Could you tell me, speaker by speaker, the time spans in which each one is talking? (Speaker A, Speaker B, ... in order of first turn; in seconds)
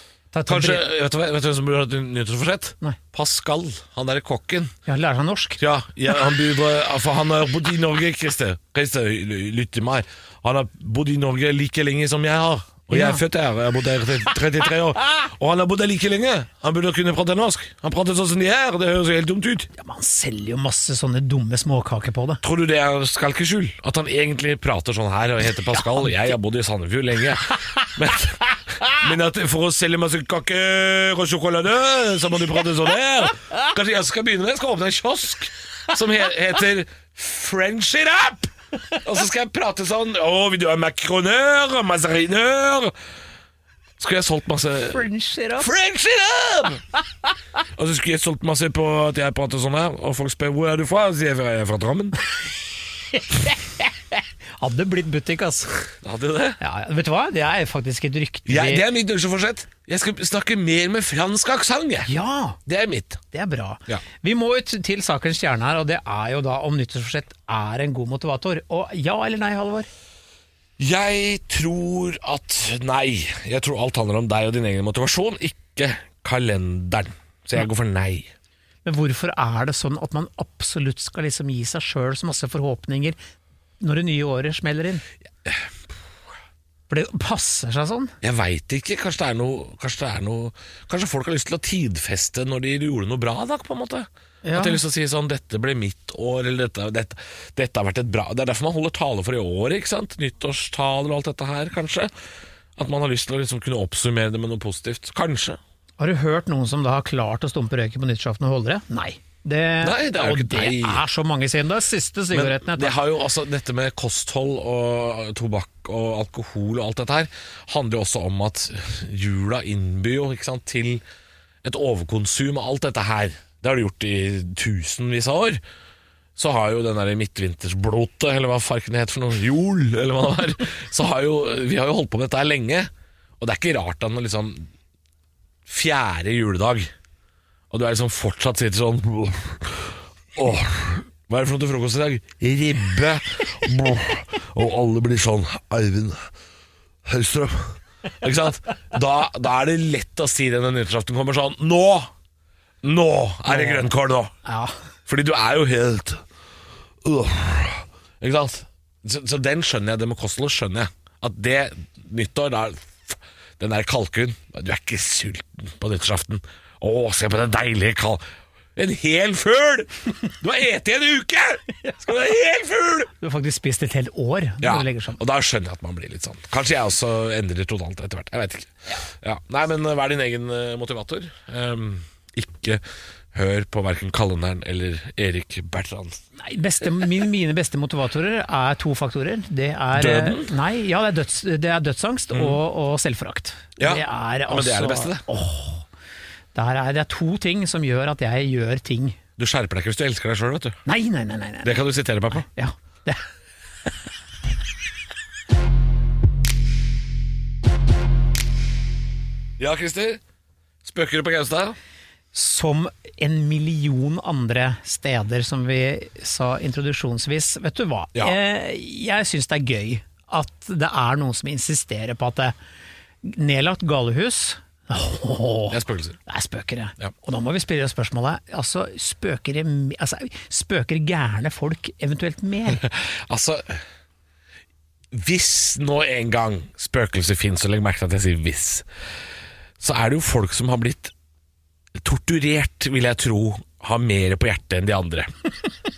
Speaker A: 0.3-0.8, 4.9-5.6, 12.9-13.2, 19.7-22.4, 25.7-26.3, 44.9-45.7, 53.1-55.9, 56.6-58.8, 62.0-62.6, 63.3-69.9, 78.8-83.2, 83.8-85.0, 86.9-88.1, 94.4-94.8, 106.0-113.0, 153.5-153.9, 154.4-154.8, 173.2-175.2, 186.4-195.8, 196.5-199.2, 200.8-203.2, 212.3-222.5, 223.2-232.8
Speaker B: 0.5-4.7, 5.6-19.7, 22.4-42.9, 44.0-45.0, 45.6-46.8, 47.7-52.2, 55.9-56.6, 58.5-62.1, 62.6-63.2, 70.8-78.3, 85.4-85.7, 88.2-102.1, 102.8-105.6, 109.8-111.0, 112.3-121.0, 121.6-125.6, 126.3-134.7, 135.7-136.9, 137.7-146.3, 147.0-152.1, 152.8-154.3, 155.1-156.2, 157.0-168.2, 168.8-173.1, 174.6-182.8, 183.3-186.2, 189.9-190.5, 192.3-192.6, 193.8-195.2, 199.4-200.8, 201.6-202.4, 209.6-210.2, 210.8-211.8, 225.7-226.2, 232.7-233.8, 235.1-238.8, 239.8-241.1, 241.9-245.3